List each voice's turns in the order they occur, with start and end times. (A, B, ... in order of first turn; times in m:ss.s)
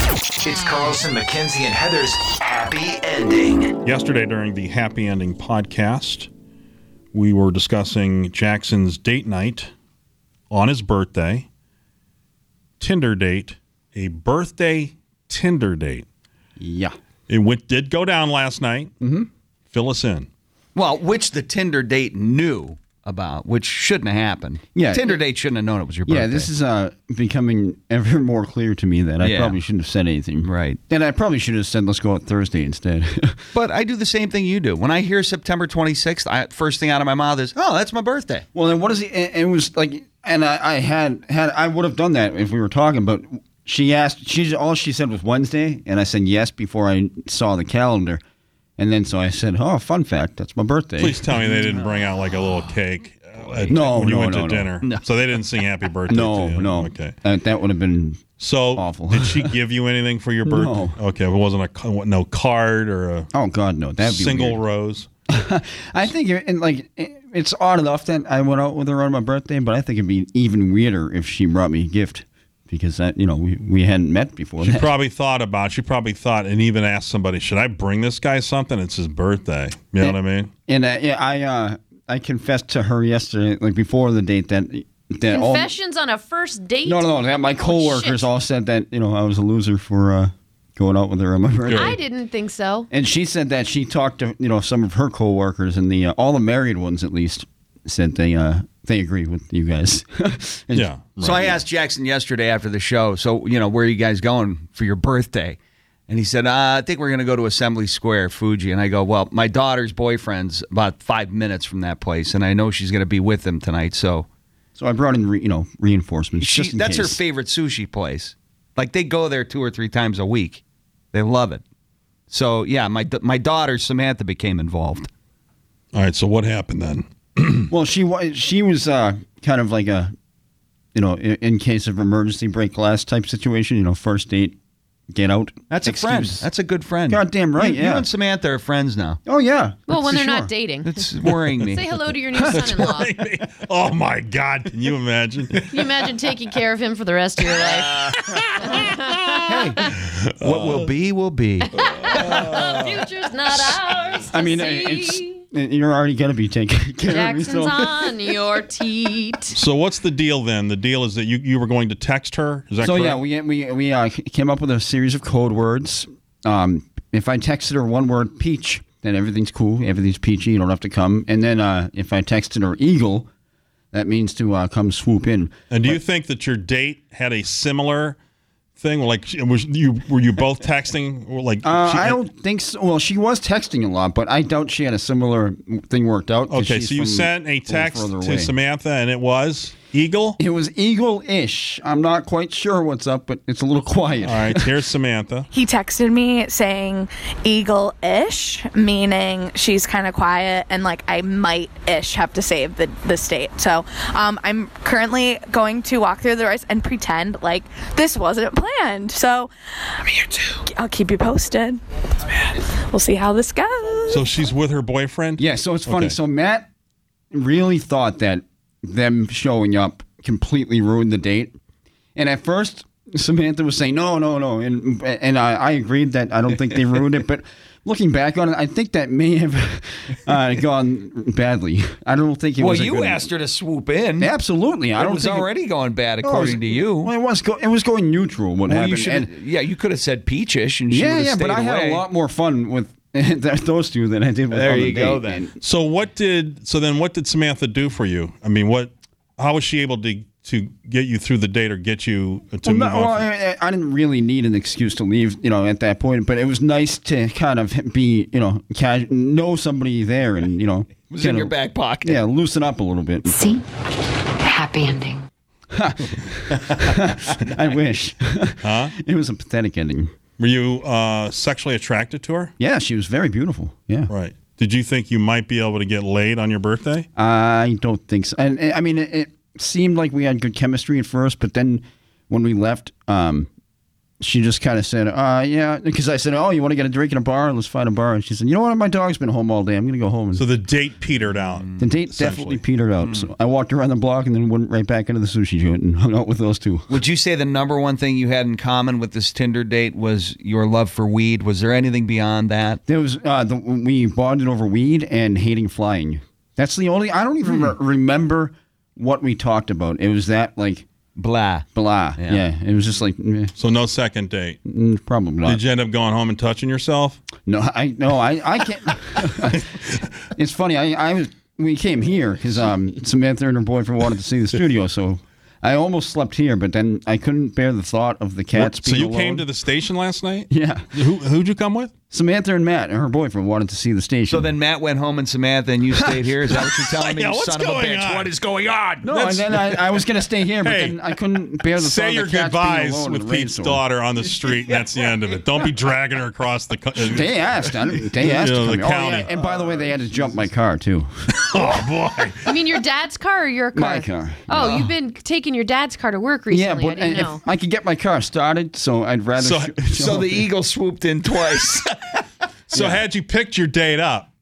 0:00.4-0:03.7 A
0:03.8-0:06.3 B
0:07.1-0:09.7 B
0:10.5-0:11.4 B
0:12.8-0:16.0 B
0:16.6-0:16.9 C
0:17.3-0:18.9 B
0:19.0-0:19.3 C
0:19.7-0:20.3 B
0:20.7-0:26.5 D
0:24.7-0:25.2 C
0:26.1-0:33.4 C
0:29.2-0:29.6 D
0:30.4-0:30.8 D
0:33.5-0:38.4 D
0:38.5-0:48.2 C
0:48.8-0:51.4 C
0:51.0-0:57.1 B
0:53.7-0:54.7 C
0:56.1-0:58.2 C
0:58.4-1:03.3 B
0:58.8-0:59.5 C
1:00.4-1:01.0 C
1:03.3-1:04.6 C
1:04.0-1:05.1 B
1:05.3-1:14.9 C
1:14.6-1:20.5 B
1:20.0-1:25.7 C
1:25.3-1:28.3 E
1:26.8-1:32.0 C
1:31.7-1:32.9 E
1:32.9-1:41.6 C
1:40.7-1:41.6 B
1:41.2-1:45.6 D
1:46.1-1:54.2 D
1:54.8-1:57.2 C
1:56.4-2:00.6 D
2:01.1-2:01.6 D
2:02.3-2:05.1 D
2:05.9-2:07.7 B
2:07.7-2:10.1 C
2:10.9-2:14.6 C
2:15.1-2:16.4 C
2:15.7-2:19.2 D
2:17.1-2:18.1 C
2:19.2-2:20.5 C
2:19.9-2:23.1 E
2:20.8-2:21.8 D
2:22.4-2:26.0 B
2:25.7-2:29.3 E
2:27.5-2:30.9 B
2:29.5-2:29.8 D
2:30.4-2:31.6 D
2:31.7-2:35.3 E
2:31.8-2:32.9 B
2:34.3-2:37.9 C
2:37.0-2:39.6 E
2:39.5-2:43.2 B
2:42.8-2:53.3 C
2:53.9-2:56.0 C
2:55.7-2:58.2 B
2:58.8-3:02.2 B
3:01.6-3:08.5 C
3:06.5-3:10.4 B
3:10.4-3:14.7 C
3:14.2-3:15.5 B
3:15.5-3:34.3 F
3:34.1-3:36.1 B
3:35.4-3:36.6 C
3:37.3-3:41.5 C
3:42.2-3:53.3 C
3:52.6-3:54.3 D
3:54.2-3:55.5 C
3:55.0-3:57.1 D
3:56.2-3:59.3 C
3:58.7-4:02.0 D
4:00.9-4:05.5 C
4:04.5-4:05.4 D
4:05.6-4:13.3 B
4:12.6-4:23.6 C
4:21.1-4:22.2 D
4:25.7-4:30.1 C
4:28.6-4:28.9 B
4:30.4-4:32.5 B
4:32.6-4:34.1 C
4:34.1-4:37.0 B
4:37.2-4:43.5 C
4:44.2-4:50.4 C
4:50.3-4:52.6 B
4:51.3-4:51.8 D
4:51.8-4:56.9 C
4:56.9-5:02.8 D
5:02.8-5:10.9 C
5:11.2-5:11.6 D
5:11.7-5:13.5 C
5:13.6-5:14.6 B
5:14.6-5:15.6 C
5:15.4-5:17.2 B
5:17.4-5:19.7 C
5:20.3-5:29.5 C
5:28.6-5:31.9 B
5:30.5-5:30.9 C
5:32.1-5:34.5 C
5:34.3-5:39.2 D
5:36.5-5:38.3 B
5:39.0-5:43.8 C
5:40.6-5:41.0 B
5:41.7-5:47.3 B
5:47.0-5:51.3 C
5:48.2-5:49.3 B
5:51.4-5:52.7 B
5:52.4-5:57.4 E
5:53.7-5:54.8 C
5:56.5-6:00.5 C
5:59.4-5:59.8 B
6:00.0-6:01.9 D
6:01.6-6:02.0 B
6:02.7-6:04.3 B
6:02.7-6:03.0 D